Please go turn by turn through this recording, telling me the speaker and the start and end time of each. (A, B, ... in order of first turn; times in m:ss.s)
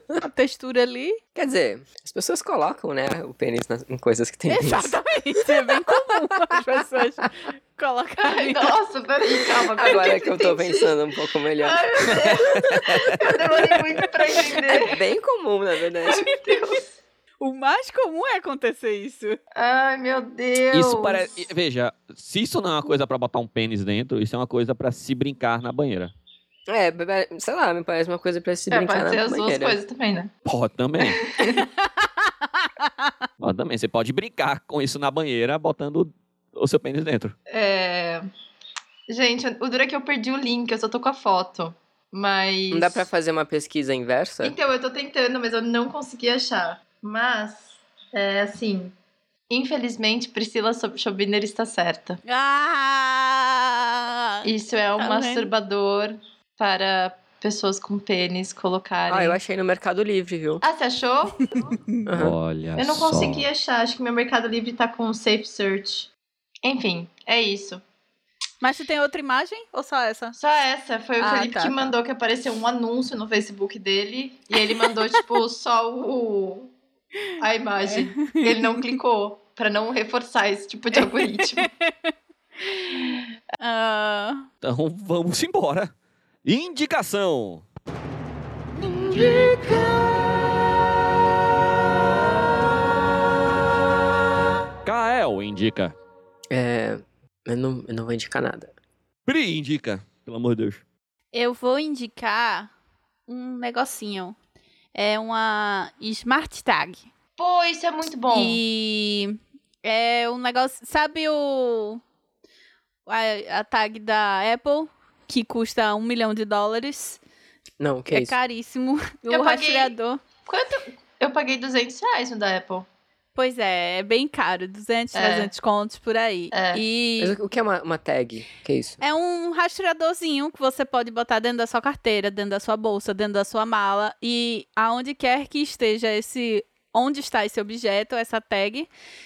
0:00.2-0:01.2 A
0:01.3-0:04.9 B
0:04.5-0:08.7 A
0:08.2-0:11.0 C
0:09.8-0:12.4 B
0:11.6-0:15.0 C
0:12.1-0:13.2 D
0:14.6-0:16.3 B
0:16.0-0:16.8 C
0:17.4-0:19.4 A
0:19.6-0:21.3 C
0:20.7-0:26.1 D
0:26.7-0:29.8 B
0:28.7-0:30.3 C
0:30.4-0:31.2 D
0:31.0-0:31.6 C
0:32.6-0:33.1 A
0:33.4-0:37.3 D
0:37.5-0:38.2 C
0:39.1-0:43.1 C
0:42.7-0:44.5 B
0:44.4-0:48.9 C
0:49.5-0:52.2 C
0:52.2-0:55.5 A
0:54.4-0:59.4 C
0:59.1-1:00.6 B
1:00.6-1:01.6 C
1:02.0-1:02.3 B
1:02.1-1:03.5 D
1:02.8-1:06.1 C
1:06.6-1:07.8 C
1:08.6-1:10.4 A
1:10.3-1:16.7 C
1:11.2-1:11.9 A
1:14.6-1:15.0 A
1:17.4-1:21.7 C
1:17.9-1:18.8 A
1:20.9-1:22.1 A
1:22.6-1:24.5 A
1:24.6-1:25.9 D
1:26.4-1:27.6 D
1:29.2-1:29.6 D
1:34.8-1:35.9 D
1:36.5-1:38.7 B
1:39.2-1:40.8 D
1:41.3-1:42.7 A
1:43.3-1:44.4 A
1:44.9-1:47.1 A
1:47.4-1:48.6 C
1:48.3-1:52.0 A
1:53.1-1:57.2 A
1:57.8-1:58.3 B
1:58.1-2:00.2 A
1:59.3-1:59.9 C
2:00.4-2:02.8 C
2:03.4-2:07.4 A
2:05.1-2:05.5 C
2:06.5-2:06.8 C
2:07.2-2:09.0 B
2:09.0-2:18.9 A